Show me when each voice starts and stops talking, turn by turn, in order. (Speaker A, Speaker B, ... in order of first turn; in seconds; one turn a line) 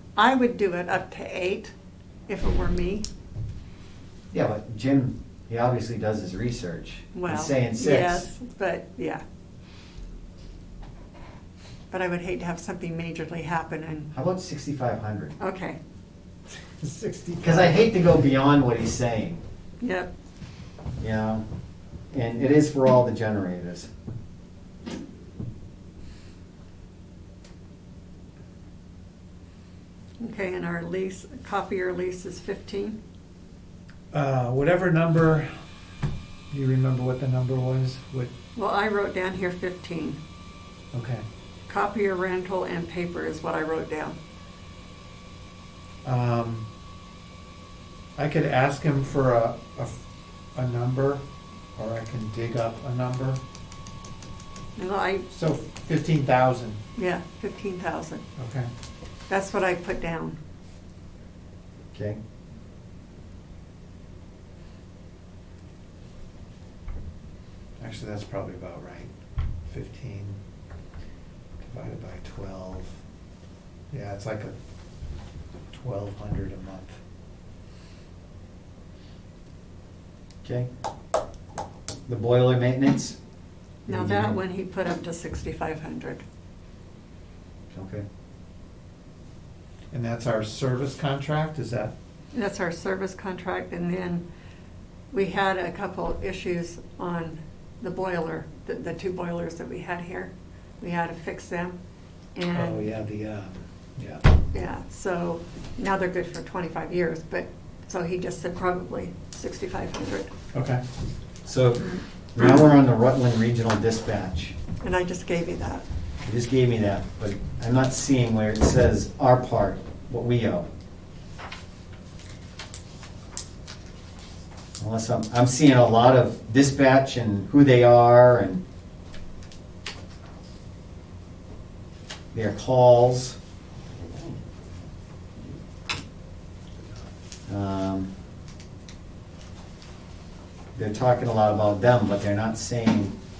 Speaker A: 0.2-1.7
Speaker A: 2.3-3.1
Speaker B: 4.3-8.3
Speaker A: 7.1-9.2
Speaker A: 11.9-14.1
Speaker B: 14.1-15.3
Speaker A: 15.4-15.8
Speaker C: 16.8-18.1
Speaker B: 17.4-19.4
Speaker A: 19.8-20.1
Speaker B: 21.0-21.4
Speaker B: 22.1-23.9
Speaker A: 30.2-33.0
Speaker C: 34.1-35.5
Speaker C: 36.5-38.3
Speaker A: 38.6-40.2
Speaker C: 40.9-41.2
Speaker A: 41.7-44.2
Speaker C: 46.0-46.7
Speaker C: 48.2-50.0
Speaker C: 50.5-51.2
Speaker C: 51.8-53.4
Speaker A: 54.8-55.3
Speaker C: 55.3-56.8
Speaker A: 57.0-58.2
Speaker C: 58.4-58.7
Speaker A: 59.3-60.4
Speaker B: 61.9-62.2
Speaker C: 67.8-69.1
Speaker C: 69.7-70.4
Speaker C: 71.6-73.0
Speaker C: 73.9-74.5
Speaker C: 75.7-77.0
Speaker B: 80.4-80.7
Speaker B: 82.1-83.2
Speaker A: 83.8-86.2
Speaker B: 83.9-84.4
Speaker B: 87.7-88.0
Speaker C: 89.9-91.9
Speaker A: 92.3-94.2
Speaker A: 95.1-101.8
Speaker A: 102.3-102.9
Speaker C: 102.5-104.2
Speaker A: 104.5-110.3
Speaker C: 110.5-110.8
Speaker B: 111.5-114.5
Speaker A: 114.8-115.8
Speaker B: 116.2-120.7
Speaker B: 124.8-128.6
Speaker B: 132.3-133.4
Speaker B: 137.5-138.1
Speaker B: 140.8-143.2